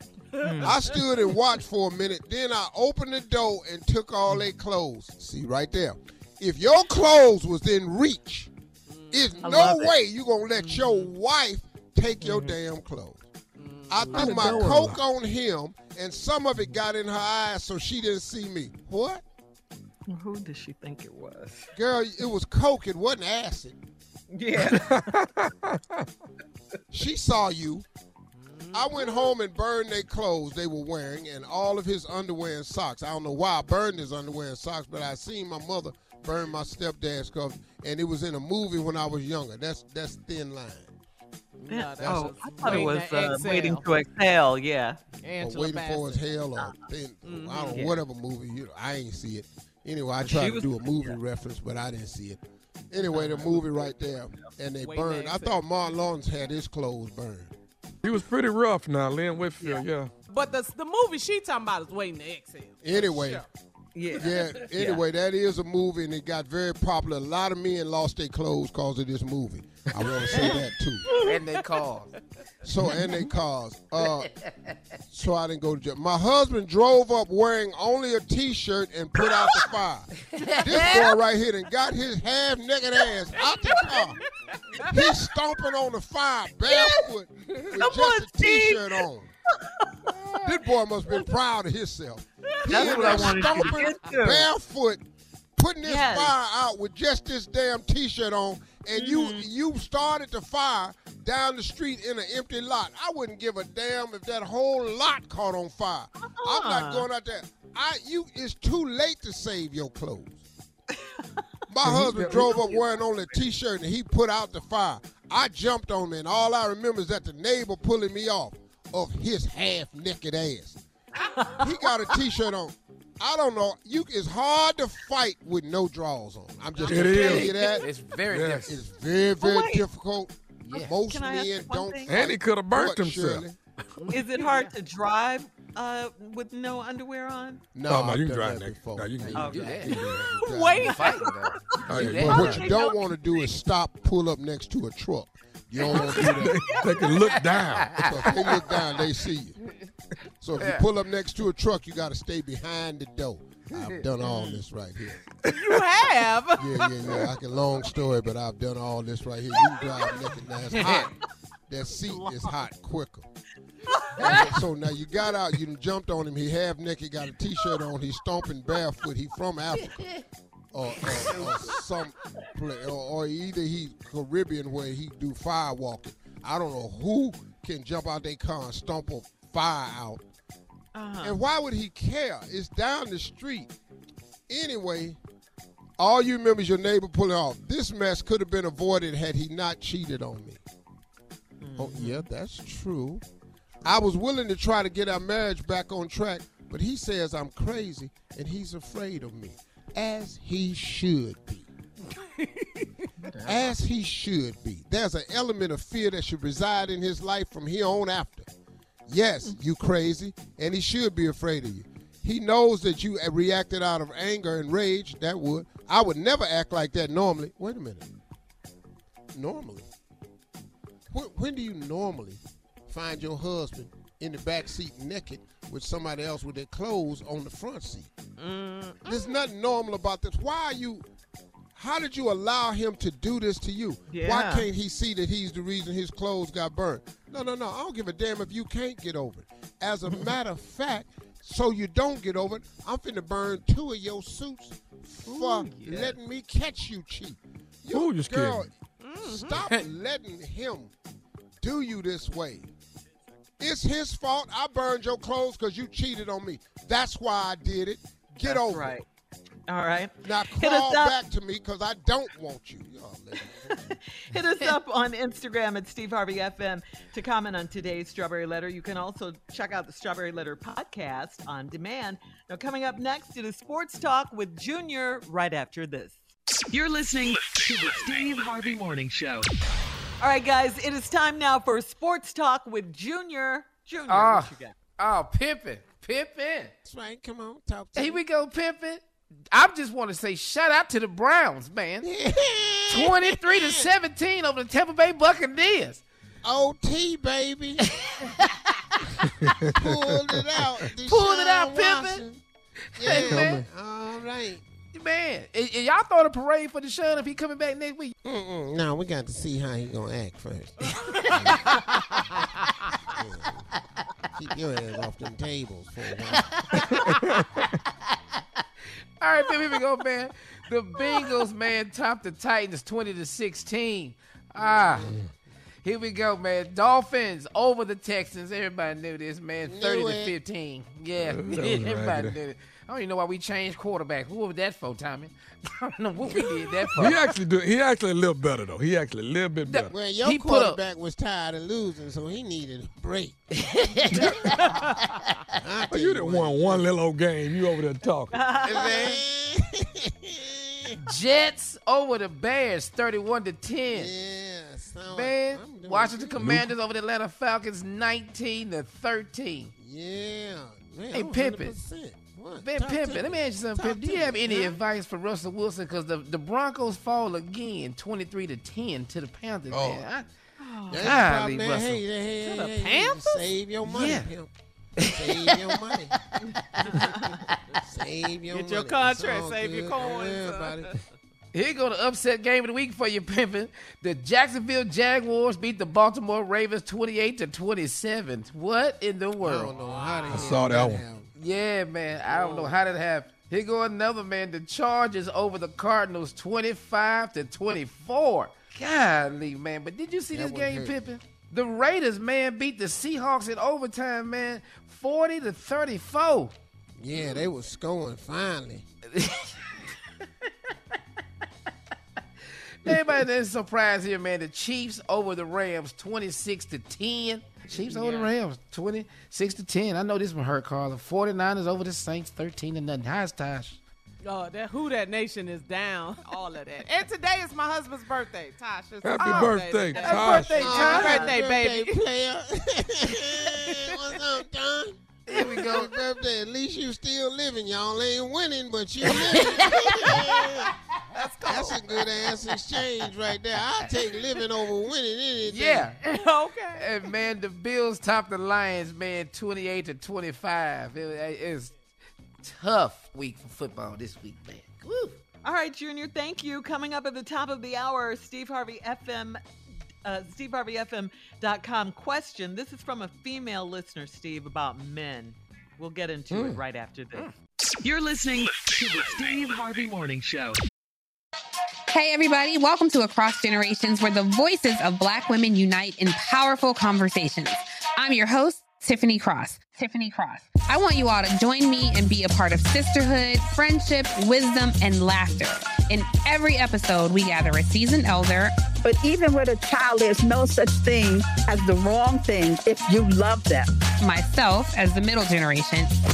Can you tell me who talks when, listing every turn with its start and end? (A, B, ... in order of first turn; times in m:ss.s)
0:00.4-0:00.8 A
0:00.4-0:00.7 B
0:00.6-0:08.5 C
0:08.9-0:09.4 B
0:09.1-0:13.2 C
0:09.4-0:09.9 A
0:12.2-0:12.6 A
0:13.6-0:14.7 B
0:13.9-0:19.2 C
0:14.2-0:14.7 A
0:14.2-0:15.0 D
0:20.1-0:21.7 A
0:21.7-0:23.8 C
0:24.3-0:25.3 A
0:24.6-0:25.2 D
0:26.9-0:27.9 C
0:28.4-0:29.3 B
0:28.7-0:41.0 C
0:41.6-0:44.0 B
0:41.7-0:45.0 A
0:42.0-0:42.9 C
0:45.2-0:46.4 B
0:45.4-0:57.5 C
0:47.2-0:47.9 B
0:47.7-0:48.0 A
0:50.2-0:51.2 A
0:53.1-0:53.6 A
0:53.2-0:53.6 B
0:54.8-0:55.6 B
0:58.0-1:00.1 D
0:59.6-1:03.5 B
1:02.8-1:03.4 C
1:04.0-1:04.6 A
1:04.1-1:11.1 C
1:11.2-1:12.1 E
1:12.6-1:14.3 C
1:14.2-1:14.5 E
1:15.1-1:24.2 C
1:20.3-1:21.1 E
1:24.8-1:29.3 C
1:26.7-1:27.0 A
1:27.8-1:29.0 A
1:29.6-1:30.1 A
1:30.4-1:35.0 C
1:32.6-1:33.9 B
1:32.6-1:34.5 A
1:35.6-1:50.4 C
1:35.8-1:36.4 A
1:38.9-1:39.5 A
1:46.4-1:47.1 A
1:51.7-2:00.8 C
1:51.8-1:52.6 D
1:52.3-1:52.8 A
2:01.2-2:02.1 A
2:01.6-2:07.9 C
2:06.8-2:07.8 A
2:06.9-2:07.5 D
2:07.0-2:08.7 E
2:08.3-2:08.7 D
2:08.6-2:13.6 C
2:09.4-2:09.9 A
2:10.6-2:11.0 E
2:11.1-2:12.3 A
2:12.1-2:13.4 D
2:14.1-2:17.6 A
2:14.3-2:14.7 B
2:17.7-2:21.0 C
2:17.9-2:20.2 D
2:19.4-2:20.0 A
2:19.4-2:20.0 E
2:20.4-2:21.5 B
2:20.8-2:22.7 E
2:21.0-2:23.5 A
2:21.9-2:22.6 D
2:22.0-2:26.6 C
2:26.1-2:27.1 A
2:26.2-2:28.0 D
2:27.1-2:28.9 E
2:27.9-2:29.6 C
2:30.4-2:35.2 C
2:30.6-2:30.8 E
2:33.8-2:34.0 E
2:34.2-2:34.6 A
2:35.5-2:37.1 B
2:36.6-2:41.1 C
2:41.7-2:43.3 C
2:42.1-2:42.4 B
2:44.1-2:44.4 A
2:44.2-2:50.1 C
2:50.7-3:00.2 C
2:51.1-2:51.6 E
3:01.0-3:01.4 A
3:01.2-3:03.7 C
3:04.5-3:05.2 C
3:06.0-3:10.6 C
3:11.6-3:12.3 A
3:11.8-3:13.2 C
3:13.8-3:21.7 C
3:23.3-3:23.7 A
3:23.4-3:28.5 C
3:29.1-3:38.1 C
3:39.3-3:39.9 C
3:41.1-3:48.1 C
3:48.4-3:49.4 B
3:49.0-3:51.1 C
3:51.8-4:10.9 C
3:54.1-3:54.7 A
4:05.3-4:06.2 A
4:07.9-4:08.7 D
4:09.0-4:09.6 B
4:11.6-4:12.7 C
4:13.6-4:19.0 C
4:18.4-4:19.0 A
4:19.7-4:21.2 A
4:20.2-4:23.9 C
4:23.7-4:36.3 A
4:36.7-4:39.5 F
4:40.2-4:44.8 A
4:44.1-4:46.7 E
4:46.8-4:48.2 C
4:48.0-4:52.1 E
4:52.0-4:53.9 C
4:52.9-4:56.0 E
4:56.4-4:57.9 C
4:58.0-4:59.6 E
4:59.8-5:02.4 C
5:00.9-5:02.2 E
5:03.0-5:04.6 C
5:03.0-5:03.6 E
5:03.3-5:03.6 D
5:04.9-5:08.2 E
5:08.2-5:12.0 C
5:11.1-5:11.9 E
5:13.1-5:13.7 C
5:14.3-5:16.5 C
5:16.3-5:17.2 E
5:19.2-5:25.1 E
5:24.6-5:25.2 C
5:25.8-5:37.3 E
5:29.6-5:30.4 C
5:31.2-5:32.4 D
5:37.0-5:39.9 D
5:39.7-5:40.8 E
5:39.9-5:43.4 C
5:43.6-5:44.7 E
5:44.1-5:44.8 C
5:45.6-5:46.9 C
5:45.9-5:48.4 D
5:48.3-5:49.2 A
5:48.7-5:49.2 E
5:48.7-5:51.0 C
5:51.0-5:54.1 E
5:53.9-5:56.7 C
5:55.1-5:59.7 E
5:56.4-5:56.6 D
5:59.8-6:04.7 C
6:01.1-6:01.8 E
6:02.6-6:10.3 E
6:09.7-6:10.1 C
6:10.6-6:11.1 A
6:10.9-6:16.1 C
6:11.0-6:12.0 E
6:12.4-6:13.5 B
6:13.8-6:14.3 E
6:15.0-6:15.8 E
6:16.3-6:17.2 E
6:16.8-6:17.3 A
6:17.8-6:20.9 C
6:18.5-6:21.0 B
6:21.5-6:29.8 E
6:29.4-6:31.3 C
6:29.7-6:30.6 B
6:30.3-6:31.0 D
6:31.4-6:46.5 E
6:32.3-6:32.7 B
6:40.3-6:41.0 C
6:47.0-6:48.8 C
6:49.1-6:49.8 E
6:52.5-7:03.8 E
6:57.7-6:58.3 B
7:04.2-7:12.0 B
7:09.0-7:10.6 D
7:10.0-7:11.4 A
7:10.5-7:20.7 C
7:13.5-7:13.9 B
7:15.3-7:15.9 E
7:19.1-7:20.5 E
7:21.1-7:21.8 B
7:21.5-7:25.9 C
7:25.5-7:31.8 E
7:26.0-7:26.9 B
7:32.4-7:35.2 E
7:35.4-7:39.4 A
7:40.0-7:47.3 A
7:46.3-7:46.6 D
7:47.8-7:50.6 F
7:51.9-8:08.5 G
8:08.8-8:13.7 H
8:14.0-8:15.9 G